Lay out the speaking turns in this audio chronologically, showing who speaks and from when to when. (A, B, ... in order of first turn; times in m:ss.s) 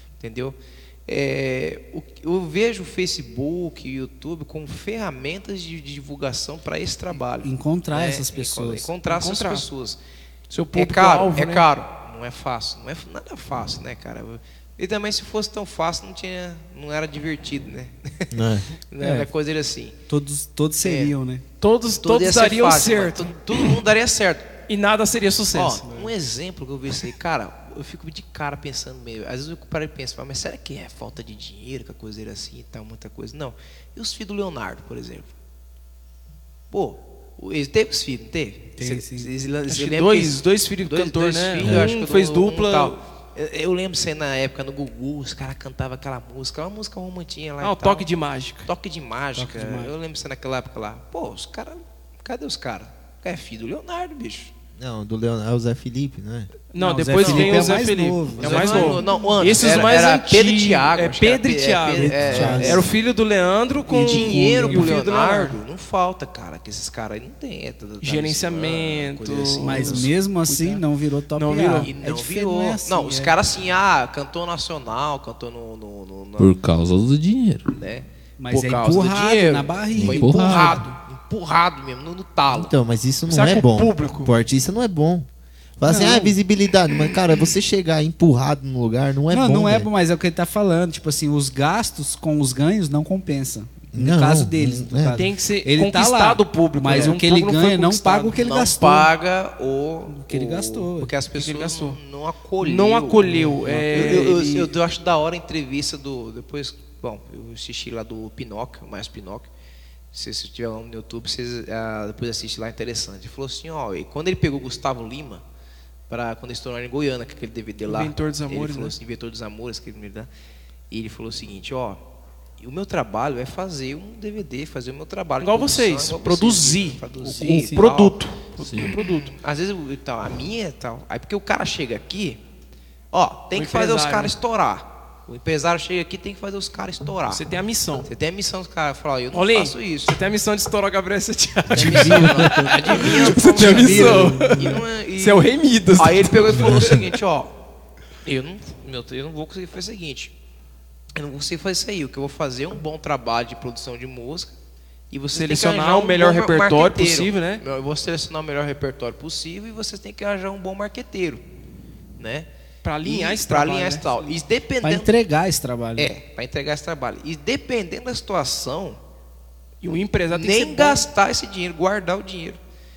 0:00.2-0:10.0 A
0:07.4-0:08.9 B
0:09.0-0:09.7 C
0:10.5-0:11.7 C
0:10.7-0:20.0 A
0:18.3-0:18.7 D
0:19.0-0:19.3 B
0:20.1-0:21.4 B
0:20.8-0:21.1 A
0:21.6-0:23.8 C
0:22.0-0:24.5 A
0:24.7-0:25.9 C
0:25.5-0:35.3 A
0:36.7-0:48.1 A
0:38.8-0:39.3 B
0:39.7-0:43.0 C
0:47.6-0:48.7 C
0:48.6-0:54.5 A
0:49.4-0:49.9 B
0:54.8-0:56.5 D
0:56.7-1:05.6 C
0:56.8-0:59.4 B
0:57.2-0:57.7 A
0:58.4-1:02.9 A
1:01.9-1:02.9 B
1:02.3-1:02.6 D
1:03.9-1:05.0 B
1:04.0-1:10.1 A
1:08.0-1:10.8 C
1:09.6-1:13.4 B
1:11.4-1:11.9 C
1:11.8-1:16.6 A
1:16.4-1:17.7 E
1:17.7-1:22.7 A
1:18.4-1:20.9 B
1:20.0-1:20.8 E
1:22.5-1:25.3 D
1:23.3-1:24.3 C
1:25.8-1:29.9 D
1:25.8-1:26.4 B
1:29.3-1:39.1 B
1:33.9-1:35.2 D
1:35.2-1:38.4 C
1:38.4-1:49.5 A
1:40.1-1:41.1 B
1:41.4-1:42.0 C
1:42.6-1:44.7 C
1:43.3-1:44.4 B
1:50.1-1:55.4 A
1:56.1-2:00.3 A
1:57.9-1:59.0 C
2:00.9-2:02.0 A
2:02.6-2:08.2 A
2:05.4-2:09.3 C
2:08.6-2:09.0 E
2:08.8-2:12.4 A
2:13.1-2:17.4 A
2:13.5-2:14.3 C
2:17.3-2:18.1 C
2:18.0-2:20.2 A
2:19.3-2:27.1 C
2:21.7-2:27.5 A
2:21.7-2:24.8 B
2:28.2-2:30.3 A
2:31.2-2:34.5 A
2:35.1-2:41.4 A
2:35.3-2:37.6 C
2:42.2-2:42.5 A
2:42.8-2:44.4 C
2:43.0-2:45.1 A
2:44.8-2:46.1 B
2:46.0-2:49.0 A
2:49.8-2:51.1 C
2:50.3-2:52.6 A